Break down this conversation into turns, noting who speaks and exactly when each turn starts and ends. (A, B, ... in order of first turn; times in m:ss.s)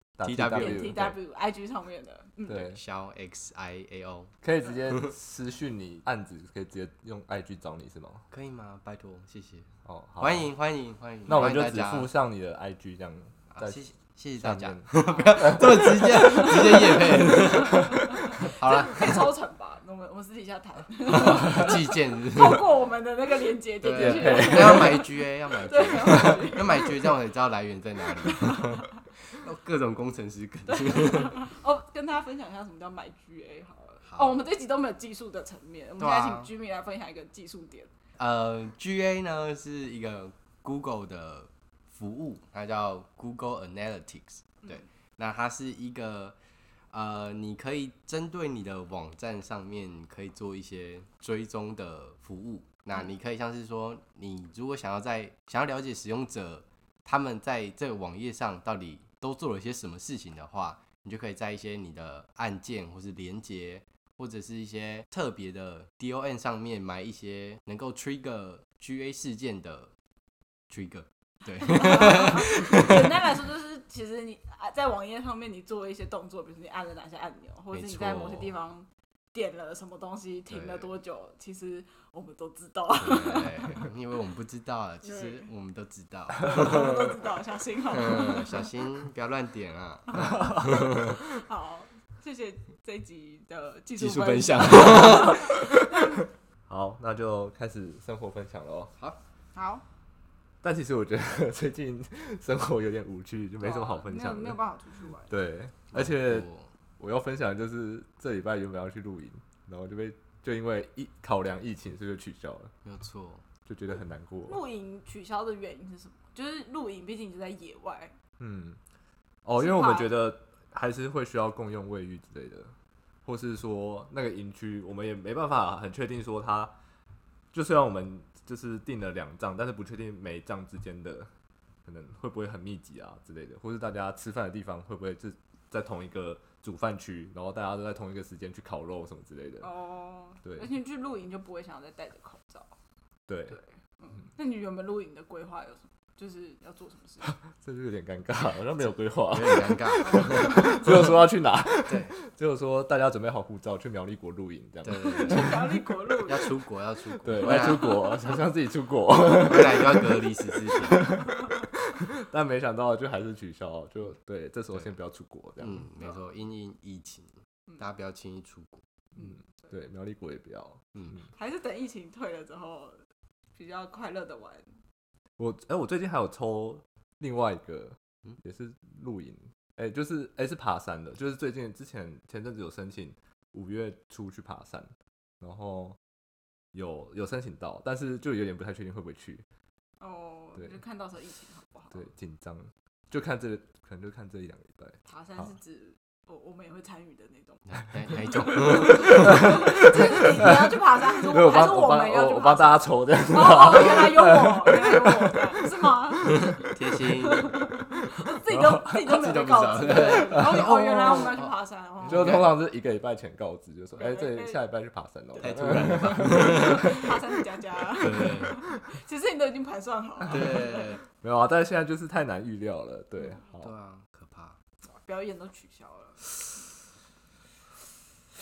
0:00.2-0:01.2 A
0:00.2-0:01.0 B
0:00.5-0:02.7 C
0:02.4-0:04.3 B
0:02.5-0:02.8 A
0:04.4-0:08.3 A
0:08.3-0:12.1 B
0:09.8-0:10.5 A
0:11.2-0:18.0 A
0:13.5-0:19.3 B
0:16.1-0:27.1 C
0:21.0-0:22.7 B
0:23.8-0:31.4 B
0:23.9-0:25.0 A
0:28.2-0:28.9 C
0:30.7-0:37.9 C
0:34.0-0:34.4 B
0:36.0-0:36.5 B
0:38.2-0:46.4 B
0:46.9-1:09.9 B
1:10.7-1:13.3 B
1:11.6-1:23.8 C
1:17.7-1:18.5 B
1:20.5-1:21.0 B
1:23.0-1:27.2 B
1:25.0-1:25.5 C
1:26.4-1:28.7 C
1:27.9-1:31.2 B
1:30.1-1:36.2 C
1:34.0-1:35.6 B
1:36.7-1:38.9 A
1:39.5-1:39.8 C
1:40.6-1:44.6 A
1:43.6-1:45.3 C
1:45.3-1:46.5 A
1:45.9-1:46.7 B
1:47.0-1:52.7 A
1:52.8-1:53.4 B
1:53.6-1:54.6 A
1:54.5-1:58.1 C
1:58.4-1:58.8 A
1:59.4-2:06.7 A
1:59.6-2:00.1 C
2:07.5-2:11.3 A
2:11.8-2:19.7 A
2:19.6-2:22.7 C
2:20.4-2:20.7 A
2:23.3-2:23.6 A
2:23.5-2:27.3 C
2:27.2-2:35.6 A
2:29.2-2:31.1 B
2:30.0-2:30.8 C
2:31.9-2:32.2 B
2:34.8-2:38.0 B
2:35.1-2:36.6 C
2:37.2-2:45.9 A
2:37.4-2:38.3 C
2:39.2-2:41.2 B
2:45.6-2:48.8 B
2:49.2-2:51.3 A
2:51.4-2:53.0 C
2:53.5-2:54.7 C
2:55.4-3:06.0 A
3:06.7-3:09.4 A
3:10.0-3:12.0 C
3:11.9-3:15.5 A
3:15.1-3:17.6 C
3:17.7-3:20.3 B
3:18.2-3:26.6 C
3:18.5-3:26.7 A
3:26.5-3:27.6 B
3:27.2-3:32.4 C
3:28.5-3:28.9 A
3:29.0-3:31.5 B
3:30.3-3:31.2 A
3:32.0-3:37.2 A
3:32.1-3:32.5 B
3:33.9-3:34.6 C
3:35.4-3:41.0 C
3:35.4-3:37.0 B
3:38.0-3:38.6 B
3:40.3-3:41.0 B
3:41.1-3:43.7 A
3:43.6-3:44.6 B
3:44.9-3:46.3 C